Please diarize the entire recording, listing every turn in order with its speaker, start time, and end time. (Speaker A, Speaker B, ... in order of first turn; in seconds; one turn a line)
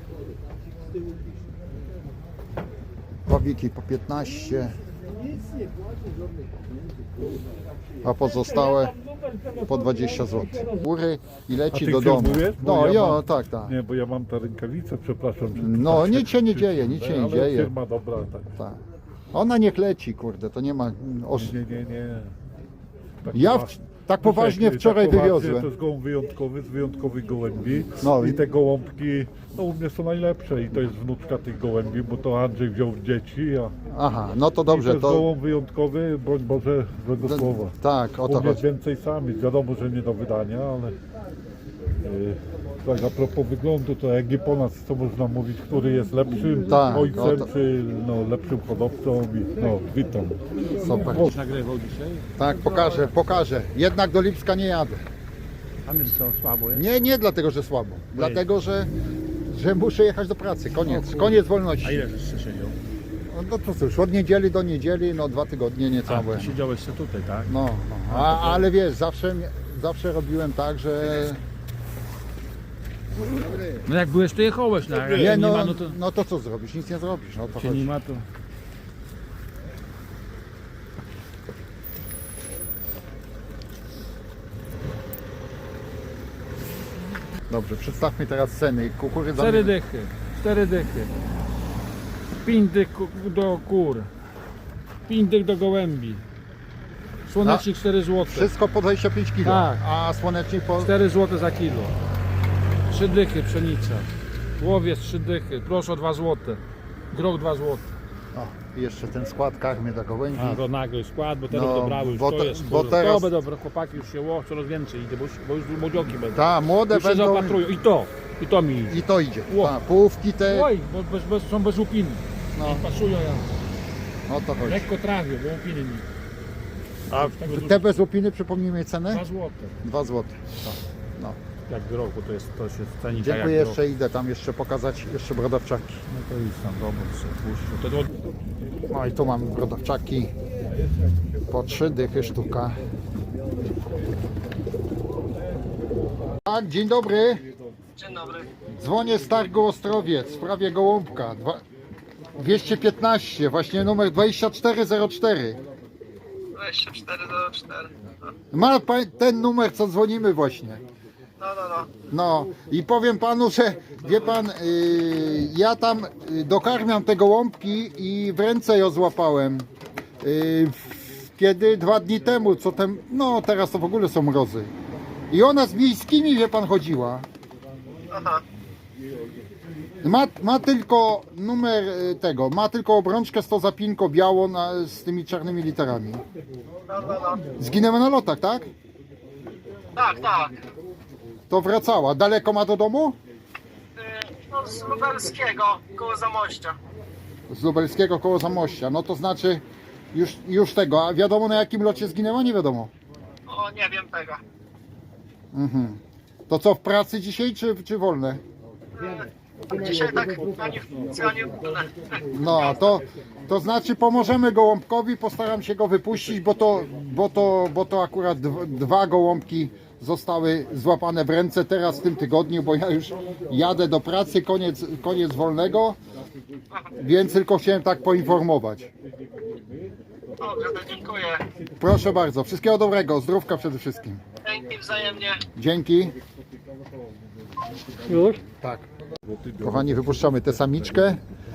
Speaker A: 3.2-4.8
Speaker A: 8.0-8.9
Speaker B: 8.4-10.8
Speaker A: 9.6-13.7
Speaker C: 11.7-18.5
Speaker A: 15.6-17.7
Speaker A: 19.3-21.6
Speaker C: 21.4-22.3
Speaker C: 23.2-23.7
Speaker A: 23.3-25.7
Speaker C: 24.2-33.7
Speaker A: 27.9-28.4
Speaker A: 33.9-35.3
Speaker C: 34.7-37.7
Speaker A: 37.2-38.6
Speaker C: 38.2-41.0
Speaker C: 42.0-50.4
Speaker A: 46.6-47.5
Speaker A: 50.8-51.4
Speaker D: 50.8-52.3
Speaker A: 52.4-55.0
Speaker D: 55.8-56.8
Speaker A: 56.7-58.9
Speaker D: 58.1-58.4
Speaker A: 59.5-62.0
Speaker D: 60.8-62.8
Speaker A: 63.3-66.6
Speaker D: 66.1-67.5
Speaker A: 67.5-71.4
Speaker D: 68.1-68.7
Speaker D: 73.8-76.0
Speaker A: 75.1-77.9
Speaker D: 77.5-78.2
Speaker A: 87.5-89.7
Speaker D: 89.3-91.1
Speaker D: 92.4-94.1
Speaker D: 95.1-96.2
Speaker D: 97.3-98.5
Speaker A: 97.4-97.7
Speaker A: 98.2-100.9
Speaker D: 99.4-99.8
Speaker D: 100.8-101.9
Speaker D: 102.9-106.6
Speaker D: 107.1-107.9
Speaker A: 108.3-110.6
Speaker D: 110.3-119.7
Speaker A: 111.5-113.4
Speaker A: 116.3-117.6
Speaker A: 118.9-120.7
Speaker D: 120.4-123.5
Speaker A: 122.5-122.8
Speaker A: 124.3-124.9
Speaker D: 124.6-126.1
Speaker A: 127.1-129.2
Speaker D: 127.3-127.8
Speaker D: 129.1-129.7
Speaker A: 129.8-131.4
Speaker D: 131.7-133.8
Speaker A: 133.1-136.0
Speaker D: 136.1-138.1
Speaker A: 138.9-140.3
Speaker A: 141.5-142.8
Speaker A: 146.4-147.4
Speaker E: 148.0-148.5
Speaker A: 148.7-151.6
Speaker A: 152.3-155.6
Speaker E: 156.5-157.9
Speaker A: 158.5-160.8
Speaker E: 161.4-161.9
Speaker A: 162.1-169.7
Speaker A: 170.2-174.7
Speaker A: 175.3-177.3
Speaker E: 178.1-178.4
Speaker A: 180.0-186.2
Speaker E: 186.9-187.6
Speaker A: 187.5-188.7
Speaker E: 189.9-190.6
Speaker A: 191.5-193.2
Speaker E: 194.0-196.8
Speaker A: 197.5-202.9
Speaker E: 203.5-204.4
Speaker A: 205.5-208.4
Speaker E: 208.9-212.8
Speaker A: 212.3-226.0
Speaker A: 227.0-228.9
Speaker E: 230.4-231.4
Speaker A: 231.8-234.2
Speaker E: 234.4-235.4
Speaker A: 235.5-236.2
Speaker B: 238.0-238.4
Speaker A: 238.6-238.9
Speaker C: 239.3-241.0
Speaker A: 239.6-241.2